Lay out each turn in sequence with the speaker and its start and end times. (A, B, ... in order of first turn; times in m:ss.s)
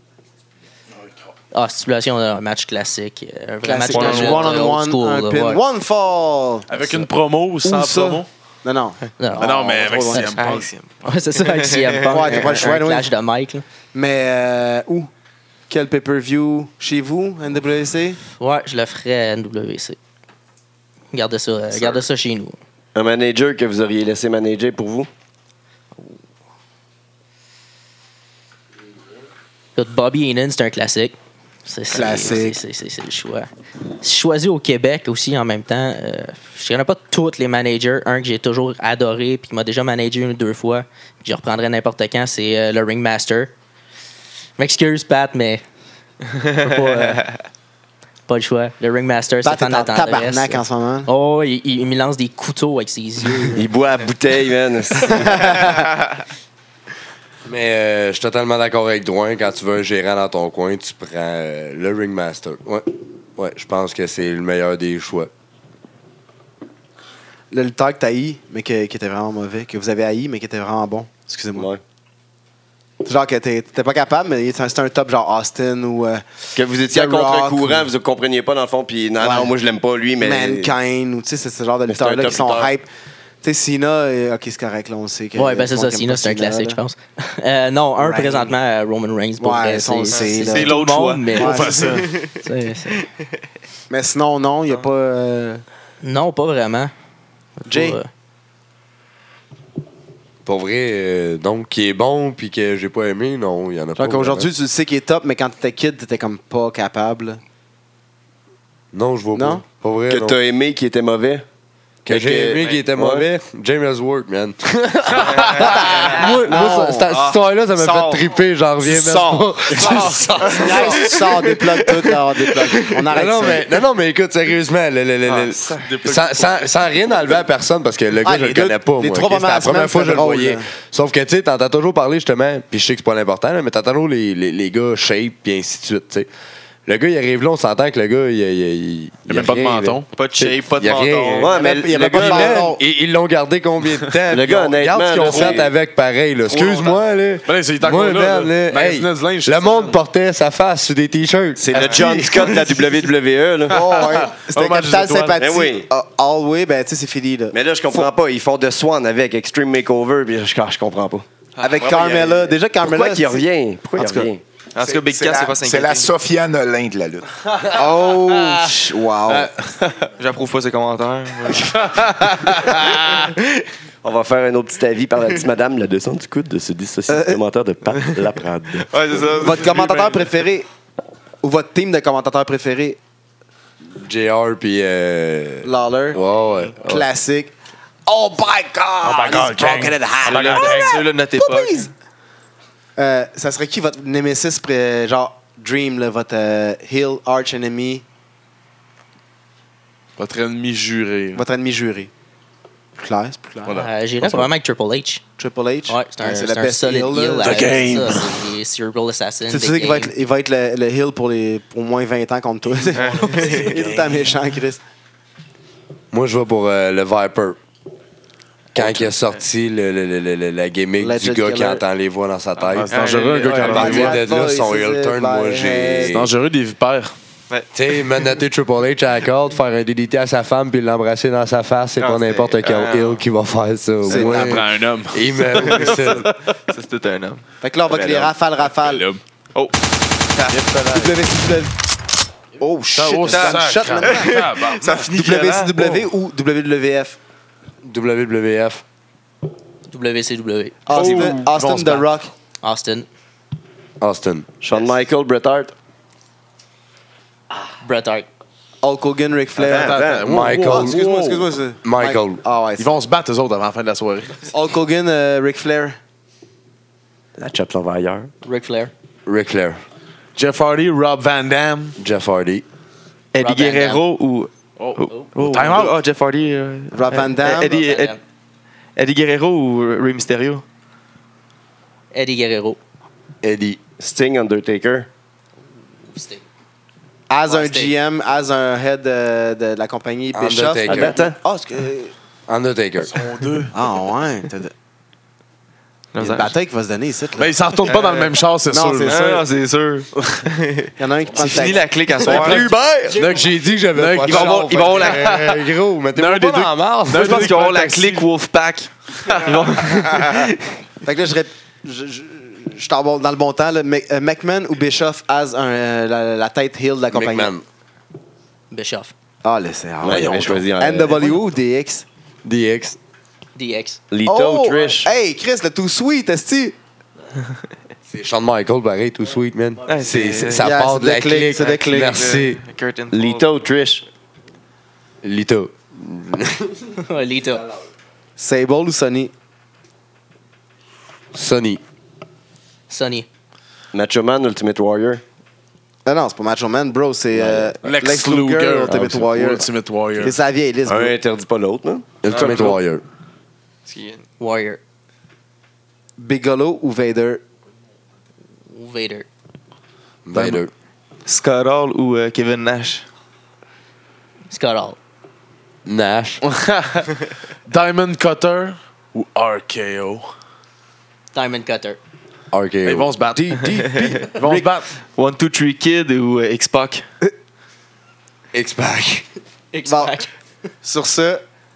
0:01.5-0:05.6 A
0:03.6-0:06.8 B
0:03.9-0:04.7 C
0:06.7-0:08.3 C
0:07.6-0:10.5 B
0:09.2-0:10.3 A
0:09.4-0:10.7 C
0:10.4-0:12.6 D
0:11.0-0:13.6 A
0:12.1-0:13.1 B
0:13.9-0:15.1 B
0:15.7-0:18.2 B
0:18.3-0:20.0 A
0:21.1-0:22.6 A
0:22.9-0:25.1 E
0:29.8-0:33.5 A
0:31.9-0:32.6 B
0:34.0-0:43.5 A
0:44.6-0:45.6 A
0:46.5-0:47.3 A
0:48.3-0:53.6 A
0:49.4-0:51.1 B
0:53.5-0:55.6 E
0:55.1-0:55.9 B
0:57.4-1:05.3 F
1:07.5-1:11.7 B
1:13.0-1:16.2 B
1:16.5-1:20.8 E
1:16.9-1:17.9 B
1:19.2-1:19.5 B
1:20.2-1:22.9 B
1:21.9-1:22.7 E
1:23.4-1:26.8 B
1:25.3-1:33.0 A
1:28.0-1:28.5 B
1:29.4-1:30.8 B
1:30.3-1:32.3 D
1:31.3-1:32.1 C
1:31.3-1:31.9 B
1:33.9-1:35.6 B
1:36.0-1:36.9 A
1:37.6-1:38.1 A
1:37.7-1:38.0 B
1:40.4-1:44.5 F
1:44.0-1:47.4 B
1:48.9-1:50.4 F
1:49.3-1:49.6 B
1:50.1-1:51.4 E
1:52.0-2:01.0 F
1:52.1-1:53.3 E
1:55.1-1:55.6 C
1:55.3-1:58.3 D
1:55.6-1:57.2 B
1:58.8-2:02.9 D
1:59.7-2:00.9 C
2:00.4-2:03.6 B
2:03.1-2:16.3 F
2:05.3-2:06.0 D
2:05.9-2:06.5 C
2:08.2-2:10.6 B
2:16.8-2:31.6 F
2:19.3-2:20.0 C
2:20.1-2:21.5 D
2:21.4-2:22.8 E
2:21.5-2:22.8 B
2:24.3-2:25.7 E
2:25.3-2:25.6 B
2:26.5-2:26.9 D
2:27.4-2:30.0 C
2:31.6-2:33.9 E
2:31.8-2:32.9 C
2:33.7-2:38.1 B
2:33.7-2:35.4 C
2:35.4-2:35.9 E
2:37.5-2:44.4 E
2:41.6-2:41.9 D
2:41.6-2:43.4 B
2:44.0-2:44.2 B
2:44.7-2:46.1 D
2:44.8-2:47.3 G
2:47.7-2:49.5 B
2:50.2-2:53.4 D
2:51.8-2:53.3 C
2:54.0-2:58.9 E
2:57.1-2:57.4 B
2:58.8-2:59.8 D
2:59.3-3:00.7 B
2:59.8-3:00.2 C
3:01.4-3:03.0 B
3:04.0-3:07.1 F
3:05.6-3:06.2 B
3:06.8-3:07.5 B
3:08.1-3:11.9 B
3:09.0-3:11.0 C
3:10.2-3:11.9 D
3:13.0-3:18.0 B
3:20.2-3:21.4 C
3:21.3-3:22.1 B
3:23.0-3:23.8 B
3:23.6-3:24.5 C
3:23.7-3:25.2 A
3:25.4-3:28.0 B
3:25.9-3:30.1 A
3:27.4-3:28.4 C
3:29.5-3:34.8 B
3:32.9-3:34.4 C
3:33.0-3:33.8 D
3:36.1-3:37.6 F
3:38.7-3:42.9 F
3:41.0-3:41.8 B
3:42.6-3:44.2 C
3:42.9-3:44.2 D
3:43.6-3:46.2 B
3:43.6-3:46.3 F
3:46.1-3:47.1 C
3:47.7-3:56.3 F
3:52.0-3:53.2 D
3:54.1-3:54.6 B
3:54.1-3:56.3 C
3:55.5-3:58.3 D
3:57.6-3:59.1 B
3:58.8-3:59.2 C
4:00.3-4:00.6 D
4:00.5-4:01.1 C
4:00.8-4:01.7 B
4:02.6-4:07.2 B
4:02.9-4:06.0 C
4:03.2-4:05.7 D
4:07.8-4:08.8 F
4:09.9-4:11.7 A
4:10.9-4:12.3 B
4:10.9-4:11.4 D
4:10.9-4:12.0 C
4:12.6-4:13.1 A
4:14.0-4:14.5 F
4:14.6-4:15.7 E
4:17.8-4:18.3 A
4:18.8-4:20.1 B
4:19.6-4:20.4 E
4:19.6-4:21.5 C
4:20.2-4:21.0 F
4:20.6-4:23.0 B
4:21.8-4:22.4 F
4:22.8-4:24.5 C
4:24.5-4:26.0 B
4:27.4-4:28.3 E
4:28.4-4:28.9 A
4:29.2-4:29.8 F
4:30.3-4:32.0 C
4:32.0-4:32.6 F
4:33.3-4:38.2 D
4:33.4-4:34.0 A
4:34.8-4:36.0 C
4:35.1-4:35.8 A
4:36.9-4:37.8 B
4:37.6-4:38.2 A
4:39.0-4:40.6 D
4:42.1-4:42.8 A
4:43.4-4:43.8 F
4:44.0-4:45.1 E
4:46.1-4:46.4 A
4:47.3-4:52.1 B
4:47.5-4:47.9 A
4:50.3-4:51.2 F
4:50.8-4:51.4 E
4:52.5-4:53.2 F
4:53.0-4:53.7 C
4:53.7-4:54.7 B
4:56.1-4:56.5 D
4:56.2-4:57.6 B
4:57.4-4:59.4 C
4:57.8-4:58.4 D
4:58.7-4:59.4 B
4:59.0-5:03.2 D
5:01.0-5:02.6 B
5:02.3-5:07.5 F
5:03.2-5:05.2 C
5:04.2-5:05.6 D
5:06.2-5:08.2 C
5:07.1-5:10.7 D
5:09.2-5:09.5 C
5:11.0-5:17.5 B
5:17.1-5:17.6 F
5:18.7-5:19.1 A
5:19.4-5:22.0 B
5:20.0-5:21.2 E
5:20.3-5:20.6 C
5:22.4-5:23.0 F
5:23.6-5:24.0 A
5:24.1-5:25.1 E
5:24.2-5:26.8 B
5:28.1-5:32.6 F
5:29.9-5:30.7 D
5:30.6-5:32.2 B
5:31.4-5:33.5 D
5:33.1-5:34.0 E
5:35.2-5:36.9 F
5:37.0-5:37.7 A
5:38.4-5:39.3 B
5:41.3-5:41.8 F
5:42.9-5:43.3 A
5:43.9-5:45.2 E
5:46.0-5:51.1 B
5:47.3-5:47.8 E
5:47.8-5:50.4 C
5:50.8-5:52.0 E
5:52.2-5:53.0 F
5:52.3-5:52.8 D
5:53.8-5:54.2 D
5:54.4-5:54.8 A
5:56.2-5:57.4 B
5:58.7-5:59.3 A
6:00.2-6:00.7 F
6:01.2-6:03.0 D
6:04.5-6:05.0 A
6:05.8-6:06.4 F
6:06.4-6:07.1 C
6:07.6-6:10.3 C
6:11.3-6:12.0 A
6:12.5-6:14.2 F
6:12.8-6:14.9 C
6:15.1-6:17.0 D
6:18.5-6:19.2 F
6:19.7-6:20.3 A
6:19.9-6:20.2 B
6:20.8-6:21.4 B